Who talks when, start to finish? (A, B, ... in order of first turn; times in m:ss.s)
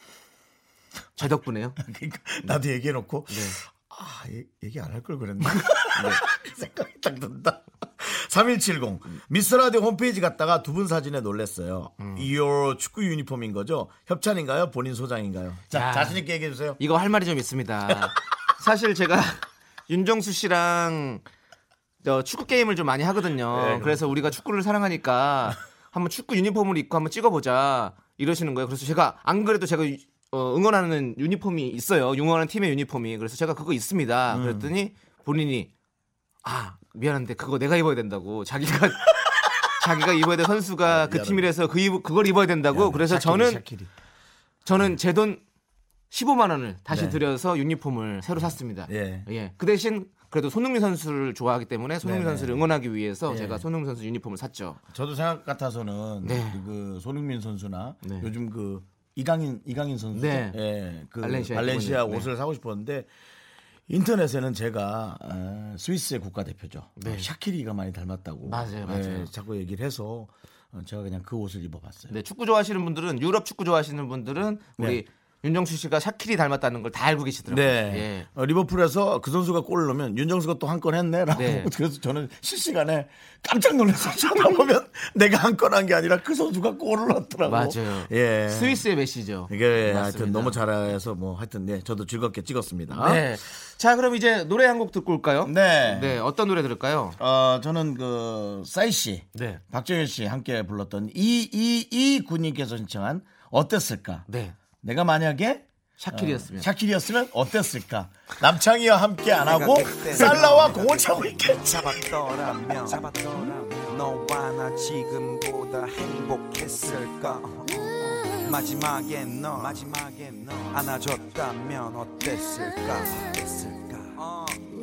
0:01.2-0:01.8 A
0:01.8-0:16.8 B
0:03.3-0:03.6 A
0:05.9-0:06.2 A
0:12.0-0:12.3 A
0:15.7-0:16.2 A
0:16.8-0:21.2 A
0:22.0-0:35.7 A
0:23.5-0:24.0 B
0:34.3-0:34.7 B
0:36.4-0:43.6 A
0:40.8-0:41.5 B
0:42.7-0:43.9 B
0:44.6-0:45.4 A
0:46.1-0:54.8 A
0:46.9-0:47.2 B
0:48.4-0:49.3 B
0:52.0-0:52.6 B
0:53.3-0:53.6 B
0:54.9-1:03.1 B
0:56.2-0:56.6 A
0:58.0-0:58.3 A
1:00.1-1:00.6 A
1:01.2-1:02.3 A
1:03.9-1:12.1 B
1:07.0-1:07.3 A
1:08.4-1:09.3 A
1:12.1-1:18.3 A
1:17.5-1:28.8 B
1:21.3-1:21.7 A
1:27.4-1:30.6 A
1:29.5-1:33.2 B
1:32.9-1:37.2 A
1:35.4-1:36.2 B
1:37.2-1:44.2 B
1:39.3-1:39.6 A
1:44.3-1:44.5 A
1:44.8-1:52.0 B
1:46.0-1:46.7 A
1:49.3-1:57.9 C
1:50.2-1:50.6 A
1:58.4-2:04.6 C